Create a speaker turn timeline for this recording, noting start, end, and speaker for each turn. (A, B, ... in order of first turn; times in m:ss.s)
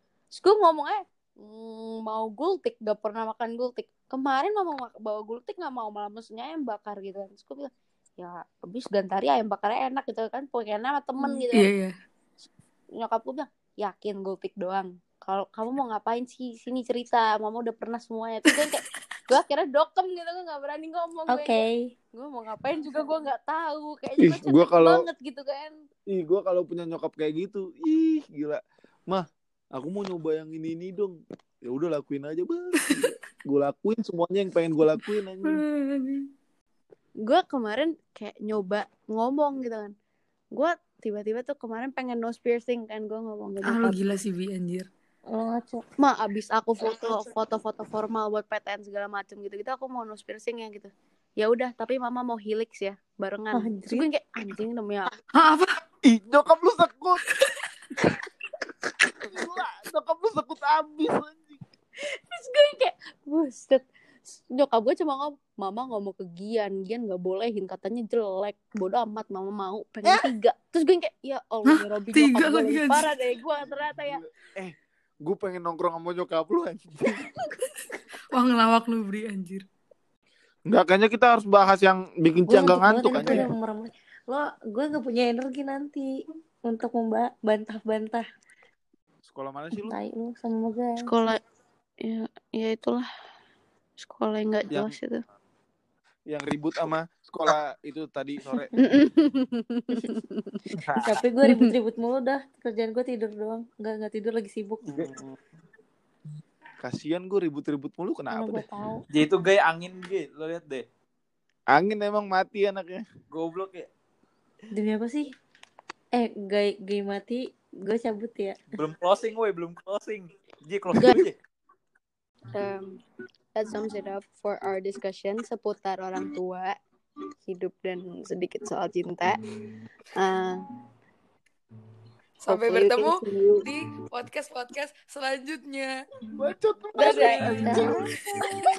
0:00.3-0:11.7 A
0:11.5-0:11.9 B
0:13.0-0:21.6 A
0:21.3-0:21.9 C
0:22.1-0:25.7 A
0:24.2-0:25.1 D
0:26.1-0:35.6 D
0:35.4-0:36.3 B
0:37.2-0:39.9 A
0:40.5-0:44.0 A
0:43.6-0:44.9 B
0:45.3-0:45.8 C
0:46.0-0:55.1 A
0:53.5-0:54.1 C
0:55.3-0:55.8 B
0:56.0-0:57.2 D
0:57.3-0:57.7 B
0:59.2-1:01.6 D
1:02.0-1:03.8 A
1:04.5-1:14.2 A
1:11.7-1:13.1 B
1:14.0-1:17.3 D
1:18.3-1:19.6 B
1:20.7-1:23.5 D
1:22.5-1:26.1 C
1:26.7-1:28.2 C
1:29.3-1:30.0 D
1:29.7-1:31.0 C
1:31.0-1:31.4 A
1:32.0-1:33.0 A
1:34.0-1:35.2 A
1:36.3-1:38.7 D
1:38.8-1:40.6 A
1:40.8-1:41.2 E
1:41.0-1:45.0 C
1:45.0-1:45.4 D
1:46.8-1:48.7 D
1:48.3-1:49.0 C
1:49.1-1:50.8 E
1:51.7-1:53.0 D
1:53.3-1:53.9 E
1:54.7-1:55.3 C
1:56.1-1:58.6 C
1:58.7-2:01.4 E
2:02.5-2:02.9 A
2:03.6-2:06.8 A
2:07.5-2:09.4 A
2:10.2-2:10.6 A
2:12.4-2:15.9 B
2:12.5-2:13.6 A
2:16.4-2:18.0 D
2:17.0-2:18.0 A
2:17.0-2:17.8 B
2:17.6-2:17.9 C